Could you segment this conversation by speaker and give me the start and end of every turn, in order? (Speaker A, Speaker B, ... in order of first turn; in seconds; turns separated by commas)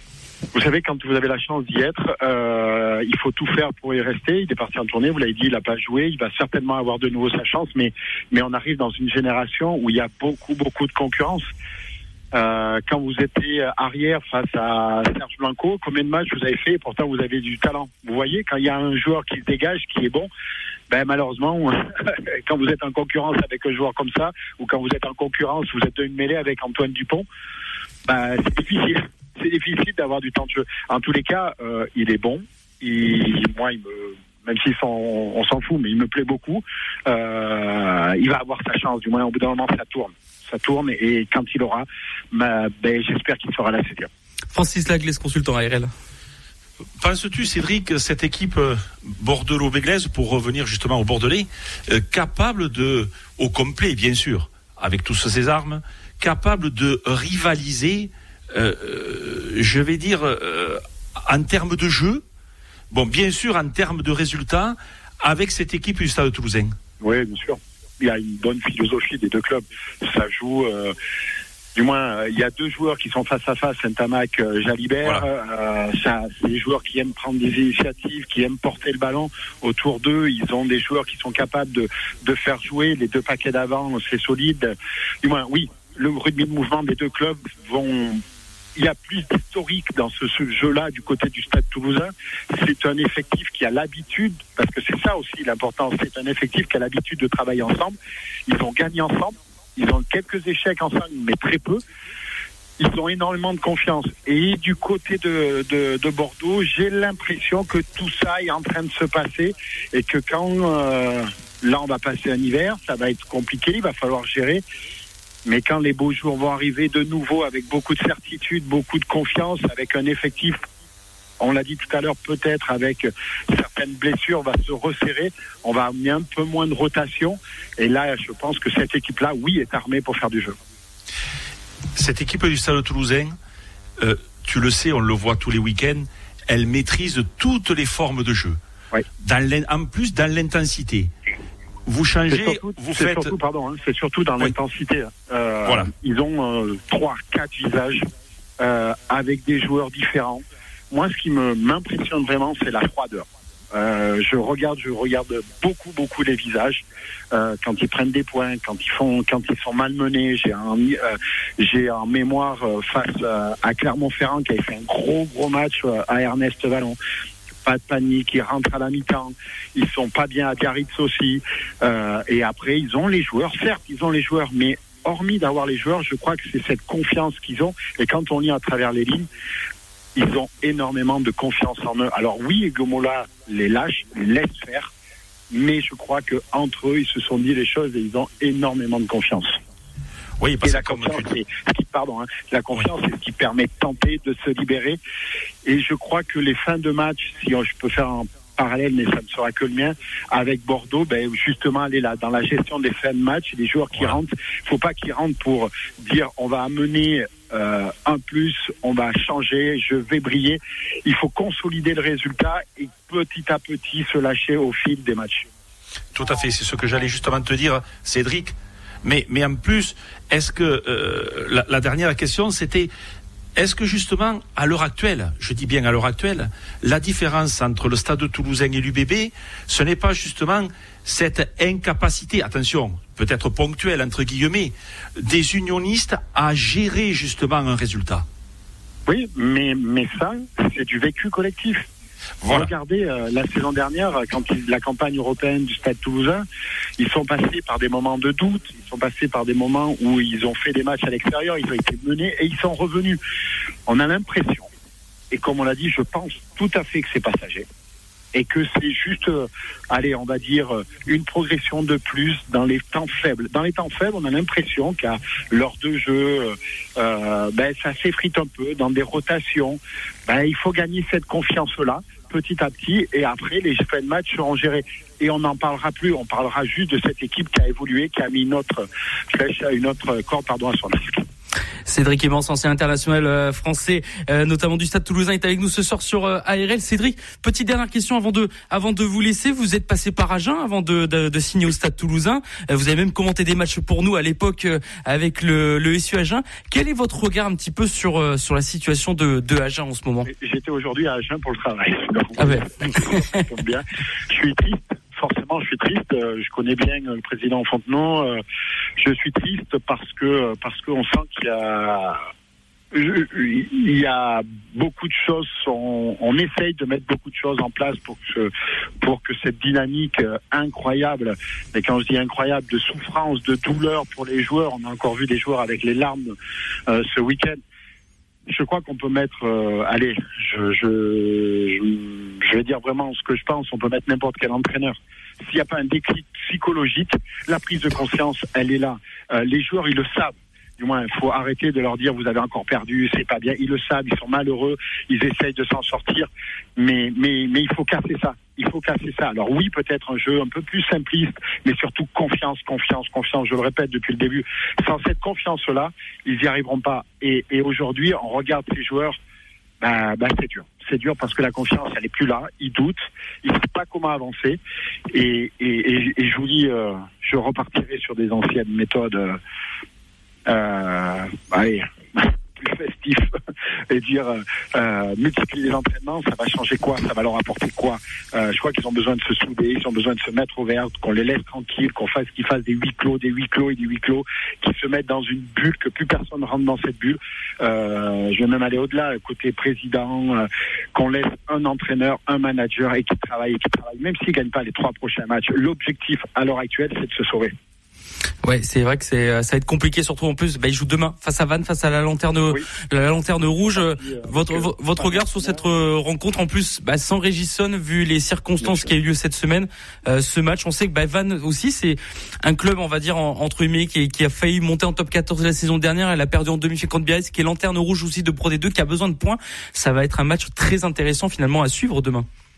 Speaker A: 0.5-11.4, Speaker A: 12.3-20.3, Speaker A: 20.9-27.2, Speaker A: 28.1-44.1, Speaker B: 44.5-45.9, Speaker C: 47.0-62.2, Speaker C: 62.9-66.7, Speaker A: 67.0-70.9, Speaker A: 71.7-88.2, Speaker A: 88.8-98.0, Speaker A: 98.5-101.8, Speaker A: 102.8-114.6, Speaker A: 115.4-120.6, Speaker A: 121.4-130.6, Speaker C: 131.9-133.3, Speaker C: 134.0-138.6, Speaker C: 139.2-141.1, Speaker C: 141.8-143.3, Speaker A: 142.3-148.0, Speaker C: 145.7-145.9, Speaker A: 148.6-167.0, Speaker A: 167.6-179.3, Speaker A: 180.1-184.9, Speaker A: 185.5-189.6, Speaker C: 190.4-191.3, Speaker A: 190.6-195.0, Speaker A: 195.6-215.4, Speaker C: 216.1-222.9, Speaker C: 223.6-238.2, Speaker A: 239.1-241.8, Speaker C: 242.4-242.7, Speaker A: 242.5-246.4, Speaker A: 247.0-253.2, Speaker A: 253.9-254.7, Speaker A: 255.3-257.6, Speaker A: 258.3-281.2, Speaker B: 281.9-300.3, Speaker A: 300.2-308.4, Speaker B: 302.4-303.4, Speaker A: 309.0-312.2, Speaker A: 312.9-318.5, Speaker A: 319.0-326.3, Speaker A: 326.9-327.6, Speaker A: 328.5-359.2, Speaker A: 359.8-364.6, Speaker A: 365.1-369.4, Speaker A: 370.4-373.3, Speaker A: 373.9-397.5, Speaker B: 398.4-422.3, Speaker A: 403.6-405.6, Speaker A: 408.6-408.9